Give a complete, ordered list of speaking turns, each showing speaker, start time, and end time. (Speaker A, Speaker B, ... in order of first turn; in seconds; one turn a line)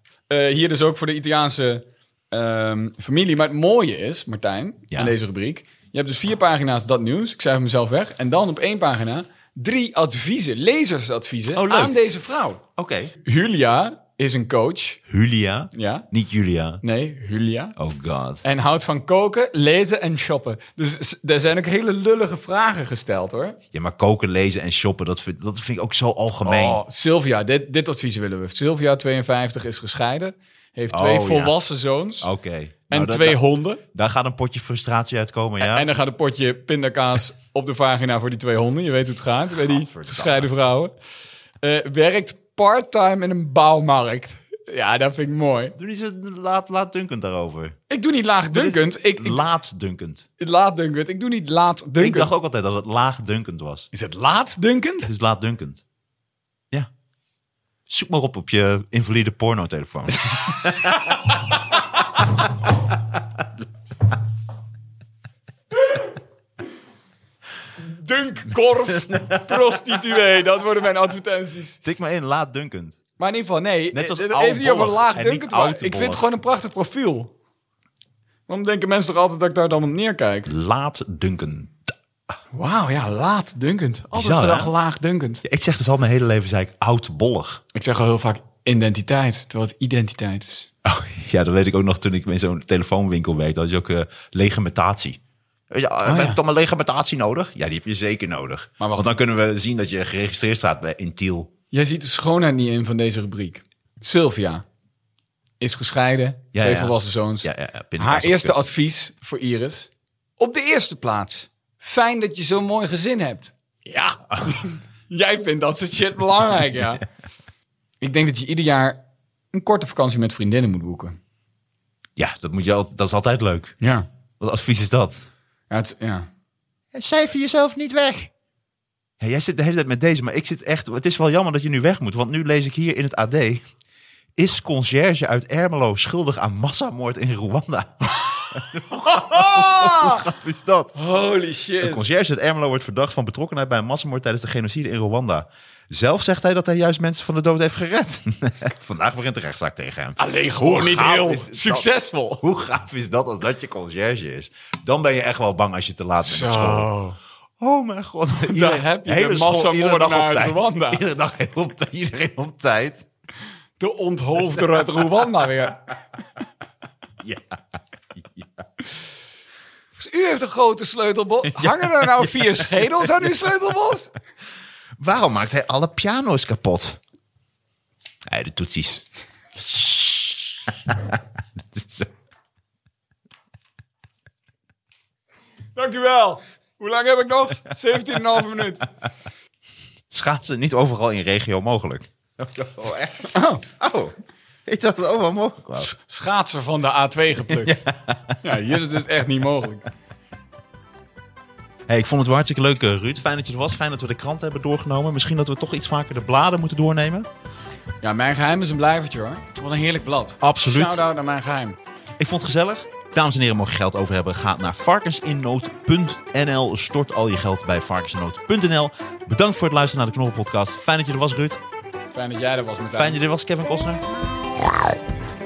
Speaker A: 0.3-12.6
Speaker B: 11.5-12.0
Speaker B: 12.8-13.1
Speaker A: 13.2-15.0
Speaker B: 15.1-16.8
Speaker A: 15.7-16.1
Speaker A: 16.8-17.8
Speaker B: 17.8-18.4
Speaker A: 18.4-23.6
Speaker B: 23.7-26.8
Speaker A: 26.4-32.3
Speaker B: 30.9-31.6
Speaker B: 32.2-33.4
Speaker A: 32.9-33.8
Speaker B: 33.9-35.9
Speaker A: 35.6-40.9
Speaker B: 39.6-40.5
Speaker A: 41.6-45.8
Speaker B: 45.8-47.8
Speaker A: 47.9-49.4
Speaker B: 48.5-50.3
Speaker A: 50.4-52.3
Speaker B: 52.0-53.9
Speaker A: 53.9-55.1
Speaker B: 55.0-55.8
Speaker B: 57.9-61.2
Speaker A: 67.8-71.8
Speaker B: 69.0-69.6
Speaker B: 71.8-73.0
Speaker A: 73.2-77.3
Speaker B: 73.9-76.2
Speaker A: 78.5-80.5
Speaker B: 80.5-81.9
Speaker A: 82.5-85.4
Speaker B: 84.1-84.7
Speaker B: 85.4-87.6
Speaker A: 87.7-90.7
Speaker B: 90.8-101.5
Speaker A: 96.0-96.4
Speaker A: 98.8-99.1
Speaker A: 101.7-104.6
Speaker A: 105.6-117.0
Speaker B: 106.5-108.7
Speaker A: 118.0-119.0
Speaker A: 119.5-121.2
Speaker B: 122.2-123.7
Speaker A: 123.8-124.0
Speaker B: 124.4-125.2
Speaker A: 125.7-126.3
Speaker B: 126.9-128.3
Speaker B: 129.2-133.6
Speaker B: 134.3-140.9
Speaker A: 138.9-140.2
Speaker A: 140.9-142.0
Speaker B: 141.8-156.9
Speaker A: 150.2-152.4
Speaker A: 156.2-157.2
Speaker B: 157.6-163.1
Speaker A: 158.4-161.0
Speaker A: 163.8-165.9
Speaker B: 164.5-164.9
Speaker B: 167.2-167.6
Speaker B: 168.1-168.5
Speaker A: 169.9-174.1
Speaker B: 171.5-173.3
Speaker B: 175.0-177.0
Speaker B: 178.3-179.0
Speaker B: 179.6-182.1
Speaker A: 185.8-188.8
Speaker B: 190.1-194.1
Speaker A: 193.3-193.6
Speaker B: 194.7-195.9
Speaker A: 195.7-197.8
Speaker B: 197.5-198.4
Speaker A: 198.4-199.8
Speaker B: 201.9-207.3
Speaker A: 208.0-211.8
Speaker B: 210.4-211.0
Speaker B: 212.2-221.6
Speaker A: 222.1-223.2
Speaker B: 222.9-224.0